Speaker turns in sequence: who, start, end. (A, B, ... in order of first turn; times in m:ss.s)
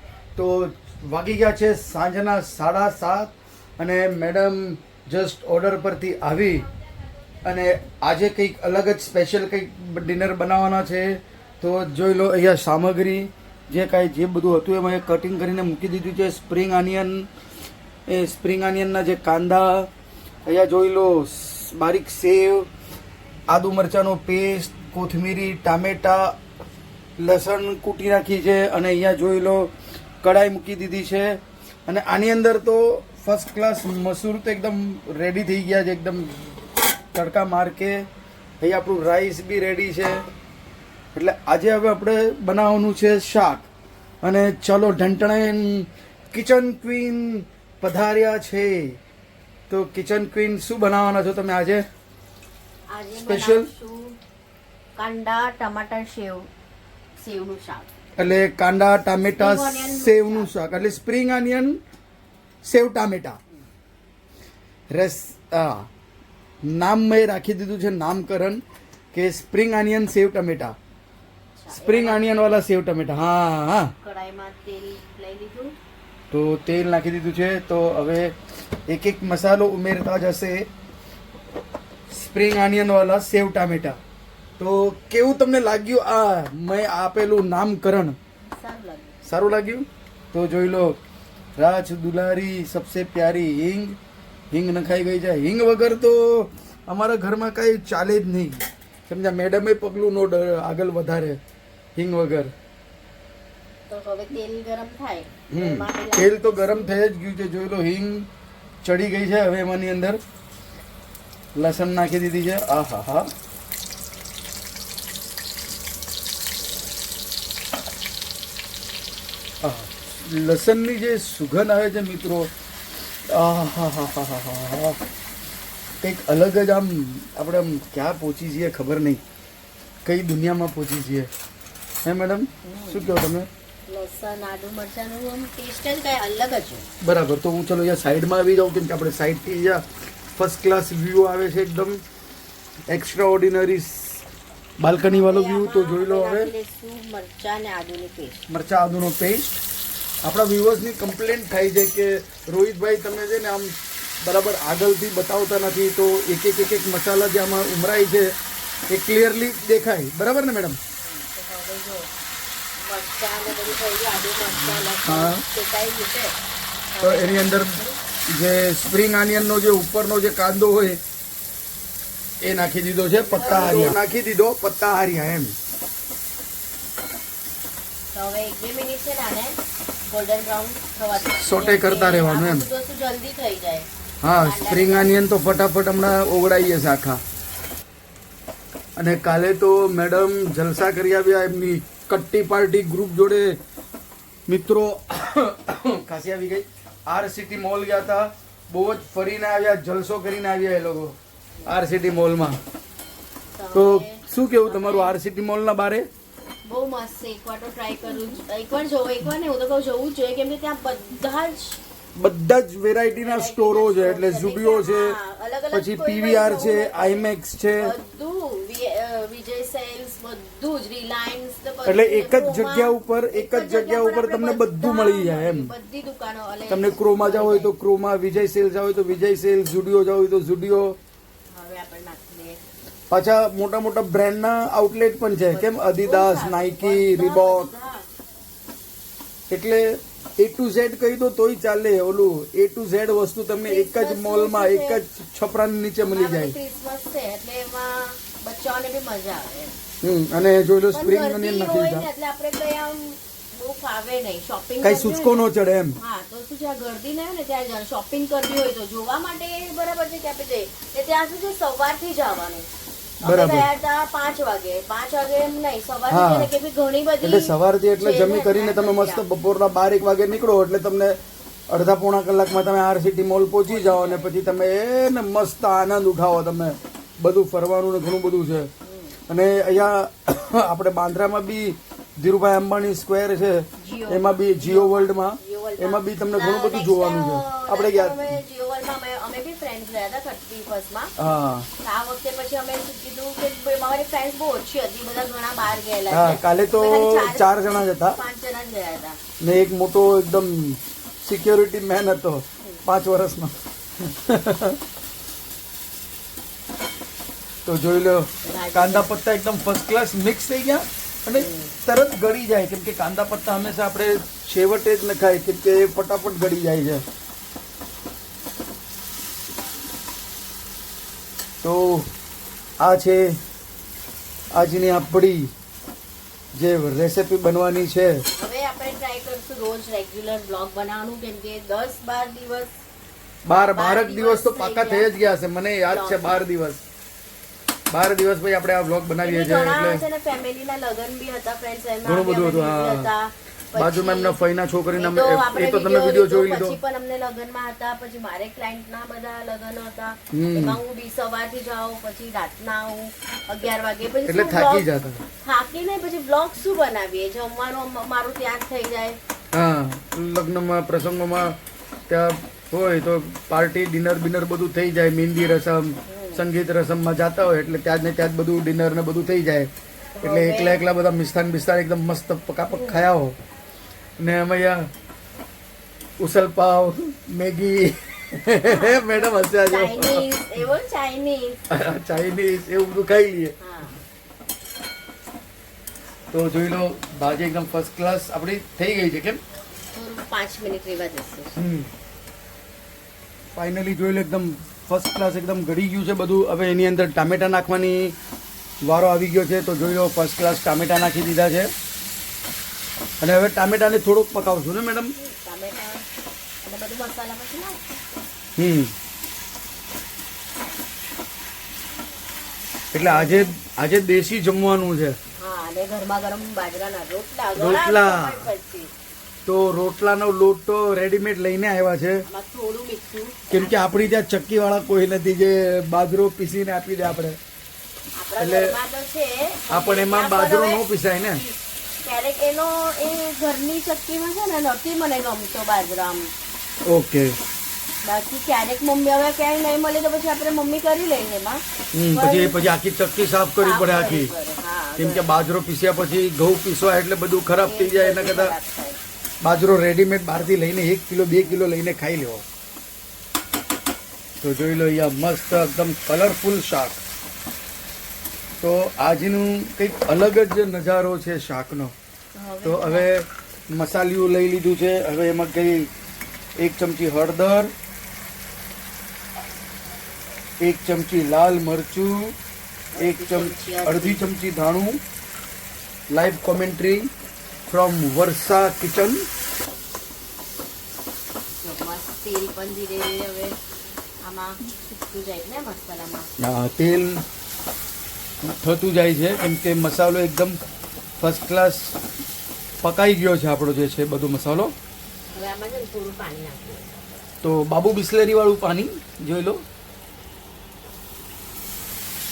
0:00.4-0:06.7 A
0:07.4-0:17.3 A
0:18.1-0:19.9 A
0:20.4-0:22.7 A
0:23.5-0:26.4 A
0:27.2-0:36.5 A
0:37.1-0:38.0 A
0:38.6-0:40.2 A
0:41.1-0:43.7 A
0:44.2-0:49.0 A
0:49.7-0:51.8 A
0:52.9-0:54.2 B
0:53.3-0:53.7 A
0:55.0-0:56.5 B
0:57.2-0:57.9 B
0:58.2-1:01.8 A
0:59.4-1:00.5 B
1:02.6-1:03.4 A
1:04.9-1:05.9 A
1:06.6-1:08.6 A
1:09.1-1:10.7 A
1:11.6-1:12.6 B
1:11.7-1:13.9 A
1:14.0-1:15.7 B
1:16.3-1:18.3 A
1:18.9-1:20.7 A
1:22.1-1:24.0 A
1:24.6-1:28.2 A
1:28.4-1:29.2 B
1:29.2-1:31.0 A
1:31.6-1:34.0 A
1:34.5-1:41.4 A
1:42.0-1:42.5 A
1:43.9-1:46.9 B
1:45.5-1:48.3 A
1:48.8-1:50.2 A
1:51.5-1:53.3 A
1:59.6-2:02.5 A
2:03.3-2:05.0 A
2:06.0-2:09.2 A
2:10.0-2:11.3 A
2:12.0-2:13.5 A
2:12.6-2:13.1 B
2:13.9-2:16.9 B
2:17.0-2:19.8 A
2:20.4-2:22.0 A
2:22.9-2:24.2 A
2:24.8-2:26.5 A
2:25.0-2:28.4 B
2:28.5-2:29.6 A
2:30.2-2:38.3 A
2:38.9-2:40.8 A
2:41.0-2:42.1 B
2:42.8-2:46.4 B
2:45.0-2:45.4 A
2:46.9-2:48.0 B
2:47.0-2:51.0 A
2:52.4-2:55.6 A
2:53.1-2:54.0 B
2:58.1-2:59.6 B
3:00.1-3:05.2 B
3:01.3-3:02.7 A
3:04.2-3:07.2 A
3:09.0-3:13.6 A
3:14.5-3:22.6 A
3:23.5-3:25.1 B
3:23.7-3:26.1 A
3:26.6-3:31.8 B
3:32.2-3:35.2 A
3:33.1-3:47.7 B
3:35.7-3:37.9 A
3:41.8-3:45.7 A
3:46.7-3:51.0 A
3:51.5-3:52.6 B
3:53.1-3:57.7 A
3:55.5-3:58.1 B
3:59.5-4:06.5 A
4:03.6-4:05.0 B
4:06.0-4:09.7 B
4:10.0-4:12.1 A
4:10.9-4:22.7 B
4:14.8-4:16.0 A
4:23.2-4:23.7 A
4:23.2-4:29.2 B
4:26.1-4:26.5 A
4:27.2-4:31.2 A
4:31.7-4:38.7 A
4:33.6-4:34.3 B
4:38.8-4:39.1 B
4:39.3-4:48.3 A
4:43.8-4:51.1 B
4:51.2-4:51.7 A
4:51.8-4:59.2 B
4:56.1-4:58.2 A
4:59.4-5:04.8 A
5:07.6-5:17.0 A
5:08.4-5:09.1 B
5:11.3-5:11.7 B
5:21.6-5:22.1 A
5:22.8-5:23.4 A
5:24.5-5:25.5 A
5:26.5-5:28.2 A
5:28.3-5:32.7 B
5:33.5-5:36.8 A
5:33.5-5:35.1 B
5:35.9-5:36.4 B
5:37.9-5:40.0 A
5:39.2-5:44.4 B
5:42.0-5:43.1 A
5:43.7-5:46.8 A
5:44.9-5:54.8 B
5:50.3-5:50.8 A
5:54.2-5:55.2 A
5:55.4-5:59.2 B
5:59.5-6:01.6 A
6:02.1-6:09.7 A
6:06.1-6:06.4 B
6:10.1-6:10.8 B
6:10.2-6:13.3 A
6:12.7-6:13.0 B
6:14.2-6:14.9 A
6:16.2-6:20.2 A
6:18.6-6:21.6 B
6:21.7-6:23.6 A
6:23.6-6:24.0 B
6:26.3-6:29.4 A
6:29.9-6:31.5 B
6:31.6-6:31.9 A
6:33.5-6:38.2 A
6:38.8-6:41.7 A
6:43.2-6:45.1 A
6:45.2-6:46.0 B
6:46.6-6:48.0 B
6:48.6-6:48.9 A
6:52.9-6:55.2 A
6:53.0-6:53.5 B
6:55.4-6:58.9 B
6:57.6-6:58.5 A
6:59.4-7:02.2 A
7:02.2-7:04.0 B
7:03.5-7:07.4 A
7:08.1-7:16.3 B
7:08.4-7:08.8 A
7:09.7-7:11.4 A
7:16.9-7:17.4 A
7:18.0-7:22.7 B
7:21.9-7:24.3 A
7:23.6-7:25.2 B
7:25.0-7:28.5 A
7:27.5-7:29.0 B
7:29.4-7:32.4 A
7:34.4-7:37.0 A
7:38.6-7:41.9 A
7:42.3-7:43.1 B
7:42.6-7:45.9 A
7:46.6-7:47.7 A
7:50.6-7:52.3 A
7:52.9-7:54.2 B
7:53.0-7:55.0 A
7:56.1-7:57.1 A
7:57.7-7:59.2 A
8:01.6-8:03.6 B
8:04.2-8:06.3 B
8:06.4-8:07.2 A
8:08.4-8:10.6 A
8:11.2-8:12.0 A
8:12.8-8:14.7 A
8:15.3-8:17.0 B
8:17.4-8:19.6 A